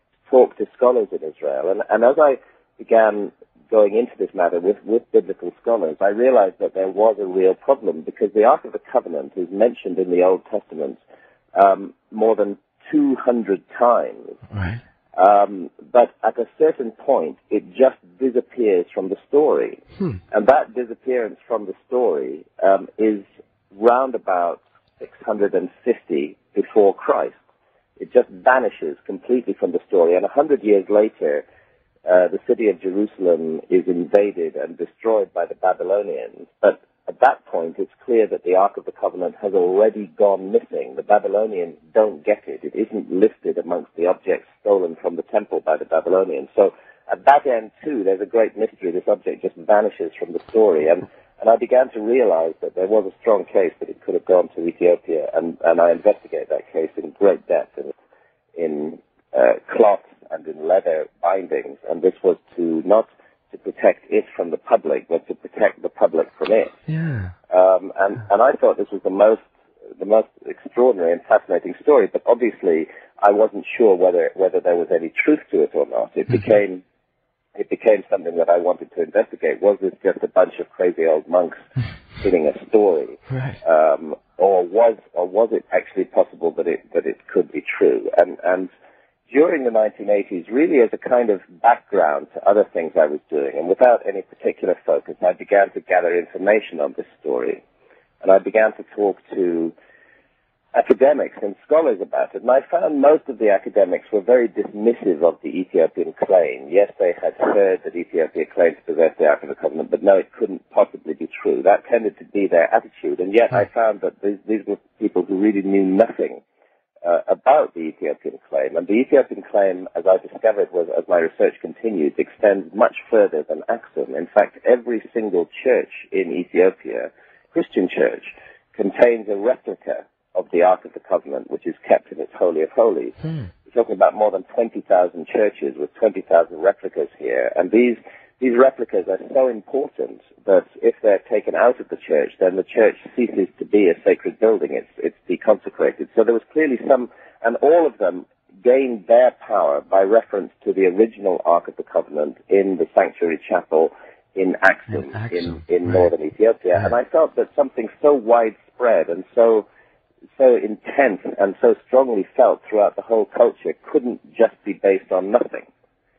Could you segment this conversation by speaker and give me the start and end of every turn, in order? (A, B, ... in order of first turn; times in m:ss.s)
0:00.3-0:11.0 A
0:11.6-0:14.4 A
0:14.5-0:14.8 B
0:15.2-0:27.4 A
0:28.0-0:31.4 A
0:32.1-0:57.9 A
0:58.6-1:06.8 A
1:06.9-1:07.3 B
1:07.5-1:16.8 A
1:17.6-1:21.6 A
1:22.2-1:28.7 A
1:23.3-1:23.6 B
1:29.3-1:37.6 A
1:38.2-1:39.7 A
1:40.8-1:56.4 A
1:57.0-2:39.7 A
2:13.2-2:13.5 B
2:34.9-2:36.1 B
2:40.4-2:45.7 A